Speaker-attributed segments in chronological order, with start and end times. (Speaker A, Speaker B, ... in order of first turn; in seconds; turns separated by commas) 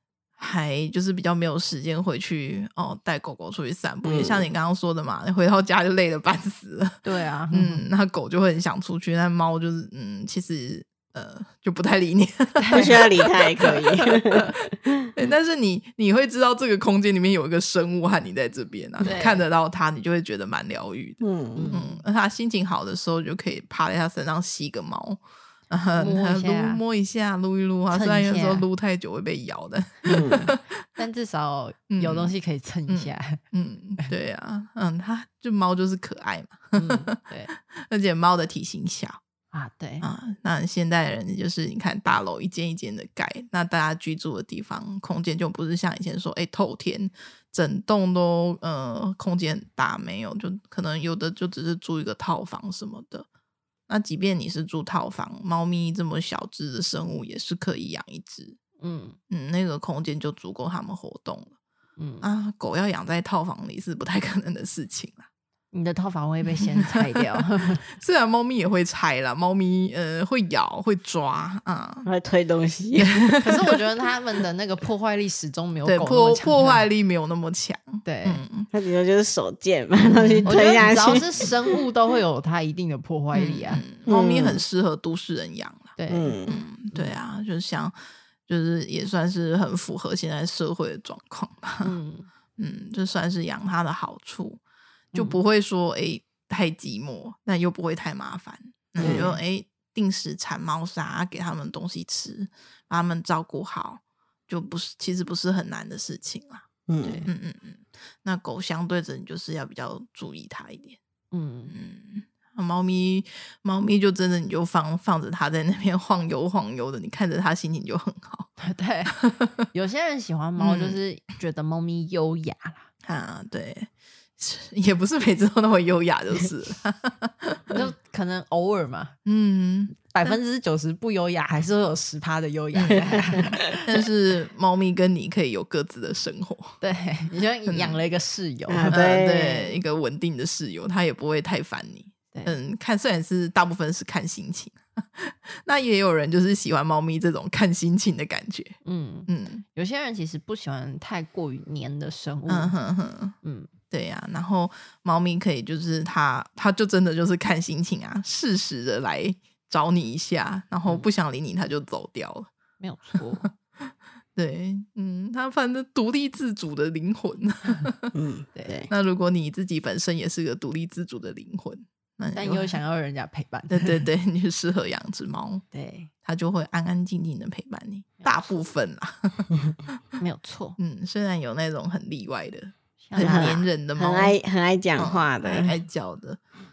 Speaker A: 0.4-14.1, Speaker B: 4.0-4.5, Speaker C: 7.0-7.8, Speaker C: 12.6-13.3, Speaker B: 12.7-15.0, Speaker A: 15.2-30.9, Speaker C: 19.0-19.4, Speaker B: 21.2-21.7, Speaker C: 21.6-22.0, Speaker C: 26.0-26.8, Speaker C: 27.9-28.7, Speaker B: 30.1-30.5, Speaker C: 31.0-33.4, Speaker A: 31.9-32.3, Speaker A: 32.9-39.2, Speaker C: 36.8-37.5, Speaker C: 39.5-40.1, Speaker A: 40.0-53.3, Speaker A: 53.9-58.6, Speaker C: 58.8-59.2, Speaker A: 59.3-61.5, Speaker C: 62.0-62.3, Speaker A: 62.2-65.3, Speaker C: 65.7-67.9, Speaker A: 66.6-72.1, Speaker B: 72.0-73.3, Speaker A: 73.0-73.7, Speaker C: 73.4-76.8, Speaker A: 75.8-78.7, Speaker C: 78.0-78.4, Speaker B: 78.7-81.7, Speaker A: 80.1-81.2, Speaker C: 80.5-83.8, Speaker A: 83.3-86.0, Speaker B: 84.1-84.6, Speaker C: 86.0-86.4, Speaker B: 86.1-86.6, Speaker A: 86.5-88.0, Speaker A: 88.5-92.0, Speaker C: 91.8-92.3, Speaker A: 92.6-94.6, Speaker C: 95.1-95.4, Speaker A: 95.2-106.7, Speaker B: 99.0-99.3, Speaker C: 99.0-99.3, Speaker B: 106.9-107.2, Speaker C: 107.0-107.3, Speaker A: 107.2-111.0, Speaker C: 111.3-111.7, Speaker A: 111.7-118.5, Speaker C: 118.6-119.2, Speaker A: 119.2-119.5, Speaker C: 119.7-122.9, Speaker A: 120.6-121.0, Speaker A: 123.0-127.9, Speaker C: 127.7-129.2, Speaker A: 129.2-130.3, Speaker C: 130.0-133.8, Speaker A: 132.7-136.8, Speaker C: 136.8-139.0, Speaker A: 137.7-138.0, Speaker B: 138.7-139.8, Speaker A: 138.9-149.6, Speaker C: 142.3-142.6, Speaker C: 148.8-152.8, Speaker A: 152.5-153.4, Speaker C: 153.4-153.7, Speaker A: 153.9-162.5, Speaker C: 162.8-163.5, Speaker A: 163.4-168.1, Speaker B: 168.1-168.9, Speaker C: 168.6-168.8, Speaker A: 168.9-172.8, Speaker C: 172.3-174.1, Speaker A: 173.7-175.6, Speaker C: 175.7-176.1, Speaker A: 176.2-180.0, Speaker C: 178.2-178.6, Speaker C: 180.2-180.8, Speaker A: 180.8-184.4, Speaker C: 183.0-183.6, Speaker B: 183.2-185.8, Speaker A: 185.0-186.4